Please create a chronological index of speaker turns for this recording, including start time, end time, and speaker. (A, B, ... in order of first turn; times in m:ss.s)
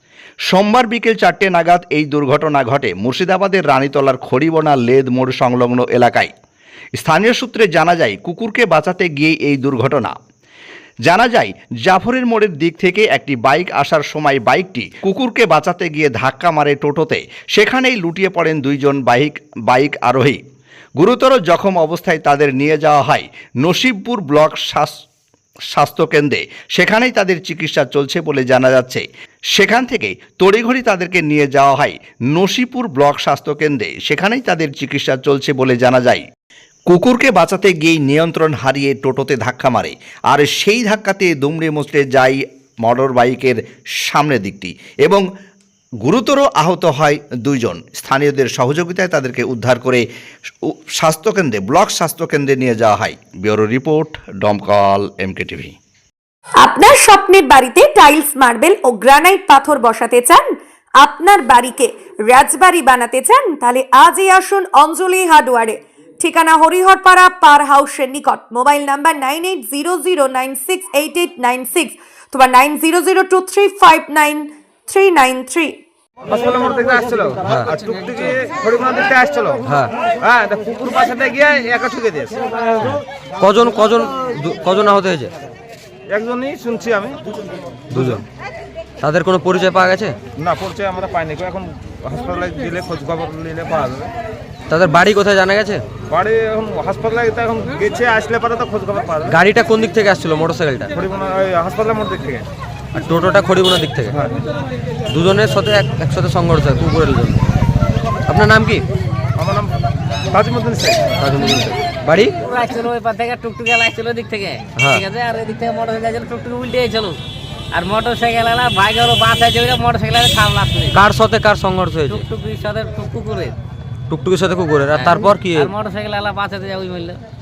0:00.5-0:06.3 A
0:07.0-0:10.1 A
0:11.1-0:20.4 A
0:21.0-0:25.0 A
0:25.7-0:36.2 A
0:36.9-0:45.2 A
0:46.0-0:50.0 A
0:50.6-0:55.7 A
0:56.6-1:15.8 B
1:16.3-1:22.8 C
1:17.4-1:17.7 D
1:19.6-1:19.9 D
1:22.8-1:25.3 D
1:26.1-1:27.2 C
1:27.9-1:28.2 D
1:29.0-1:30.1 D
1:30.4-1:34.1 C
1:34.7-1:35.8 D
1:36.1-1:39.4 C
1:39.3-1:40.9 D
1:40.9-1:42.5 C
1:42.9-1:44.2 D
1:45.1-1:47.4 D
1:48.3-1:48.8 D
1:49.4-1:49.7 C
1:50.3-1:51.1 C
1:51.2-1:52.4 D
1:52.4-1:57.2 E
1:54.8-1:55.0 D
1:57.7-2:01.0 E
2:00.9-2:02.2 D
2:02.1-2:03.6 E
2:04.1-2:05.7 D
2:04.9-2:07.2 E